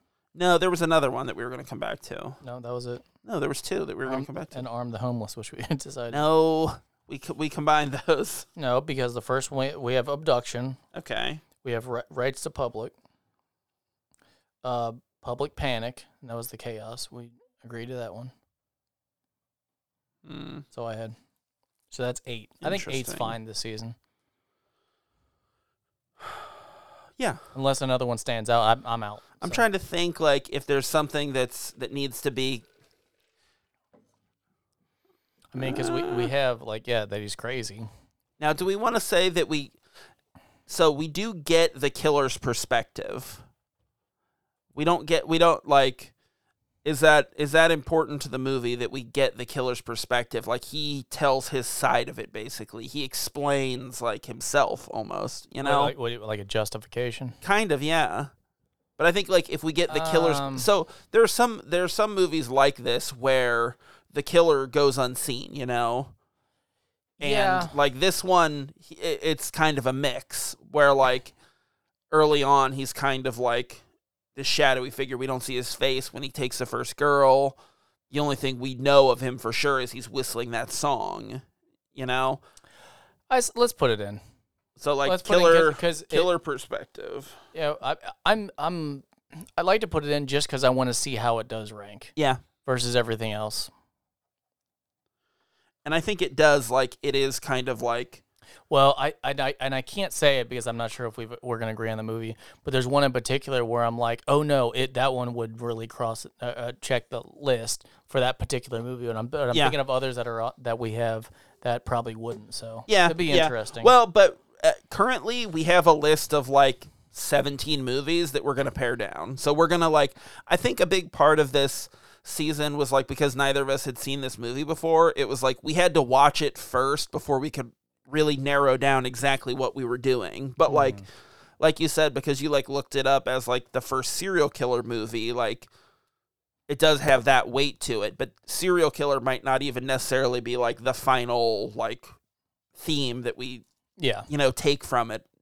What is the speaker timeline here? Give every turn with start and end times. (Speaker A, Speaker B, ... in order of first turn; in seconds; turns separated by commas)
Speaker A: 0.3-2.4, Speaker B: 2.4-3.0, Speaker A: 3.2-4.6, Speaker B: 4.0-6.2, Speaker A: 6.1-8.5, Speaker B: 8.6-10.8, Speaker A: 10.9-11.4, Speaker B: 11.6-12.9, Speaker B: 14.6-18.3, Speaker A: 20.2-20.6, Speaker B: 20.7-21.1, Speaker B: 21.9-23.9, Speaker A: 22.6-23.4, Speaker B: 27.5-29.6, Speaker A: 29.4-32.6, Speaker B: 35.5-37.9, Speaker A: 35.6-36.3, Speaker A: 38.4-39.8, Speaker A: 40.7-43.4, Speaker A: 44.7-46.1, Speaker A: 46.8-55.9, Speaker B: 55.6-57.4, Speaker A: 57.4-58.3, Speaker A: 59.0-66.1, Speaker B: 59.9-60.7, Speaker A: 67.2-71.3, Speaker B: 67.2-67.7, Speaker A: 72.1-73.8, Speaker A: 74.3-77.6, Speaker A: 78.1-81.4, Speaker A: 81.9-82.4, Speaker B: 83.3-84.2, Speaker A: 84.8-87.4, Speaker B: 85.0-86.3, Speaker B: 87.5-92.1, Speaker B: 92.6-93.7, Speaker A: 95.8-98.2, Speaker B: 98.7-113.9, Speaker A: 112.9-131.0, Speaker B: 130.7-131.1, Speaker A: 131.6-135.7, Speaker A: 136.7-142.1, Speaker A: 142.8-143.6, Speaker B: 144.0-144.3, Speaker A: 144.3-145.2